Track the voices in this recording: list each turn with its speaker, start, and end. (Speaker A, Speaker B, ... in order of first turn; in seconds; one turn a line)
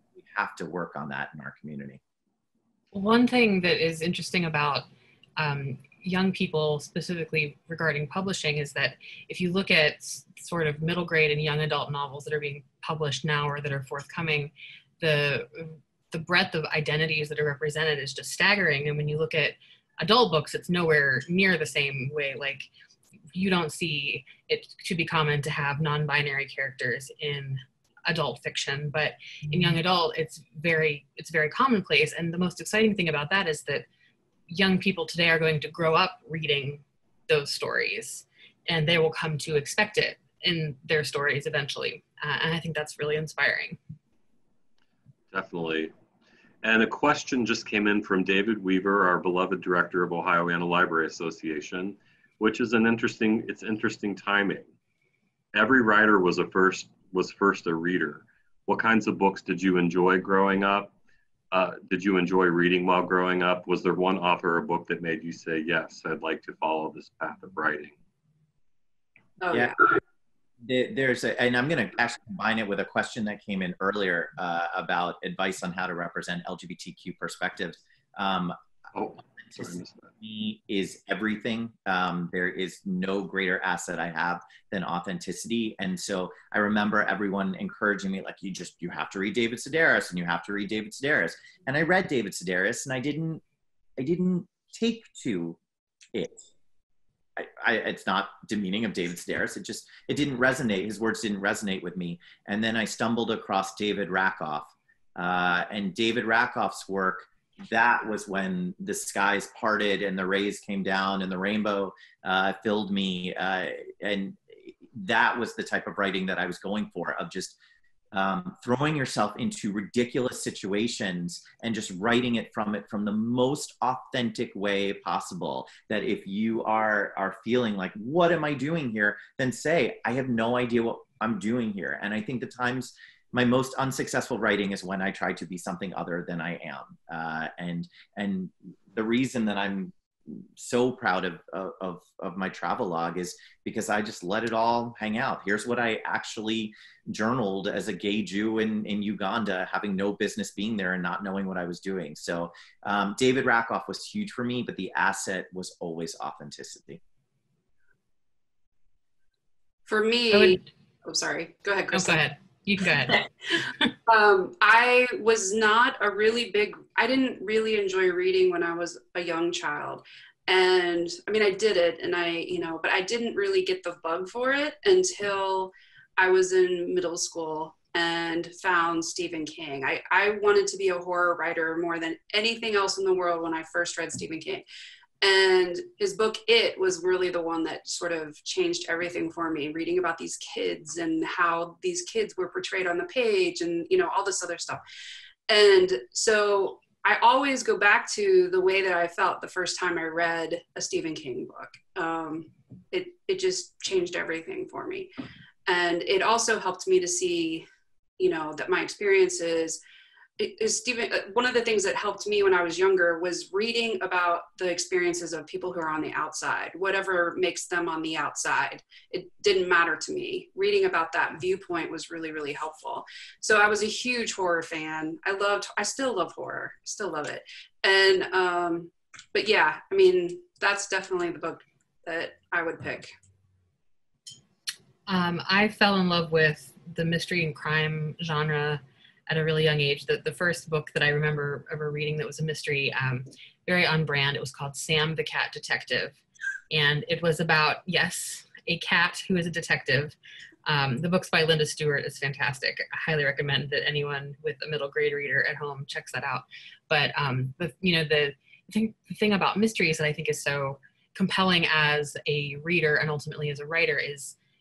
Speaker A: 0.2-2.0
Speaker B: 2.9-4.8
Speaker B: 5.4-22.7
Speaker B: 23.3-33.9
Speaker B: 34.5-43.8
Speaker C: 45.3-45.9
Speaker C: 46.6-54.7
Speaker C: 55.5-60.9
Speaker C: 61.5-68.0
Speaker D: 69.4-69.8
Speaker A: 69.5-69.8
Speaker A: 70.6-78.6
Speaker C: 78.9-80.1
Speaker A: 79.6-93.4
Speaker A: 94.0-95.6
Speaker A: 96.1-96.5
Speaker A: 97.4-117.6
Speaker A: 118.1-157.0
Speaker D: 159.9-162.3
Speaker B: 160.3-160.6
Speaker B: 161.9-163.9
Speaker D: 164.1-184.6
Speaker D: 185.2-194.8
Speaker D: 195.5-205.1
Speaker D: 205.7-207.7
Speaker D: 208.2-209.8
Speaker D: 210.4-233.1
Speaker B: 235.1-246.2
Speaker B: 246.7-250.2
Speaker B: 250.7-264.4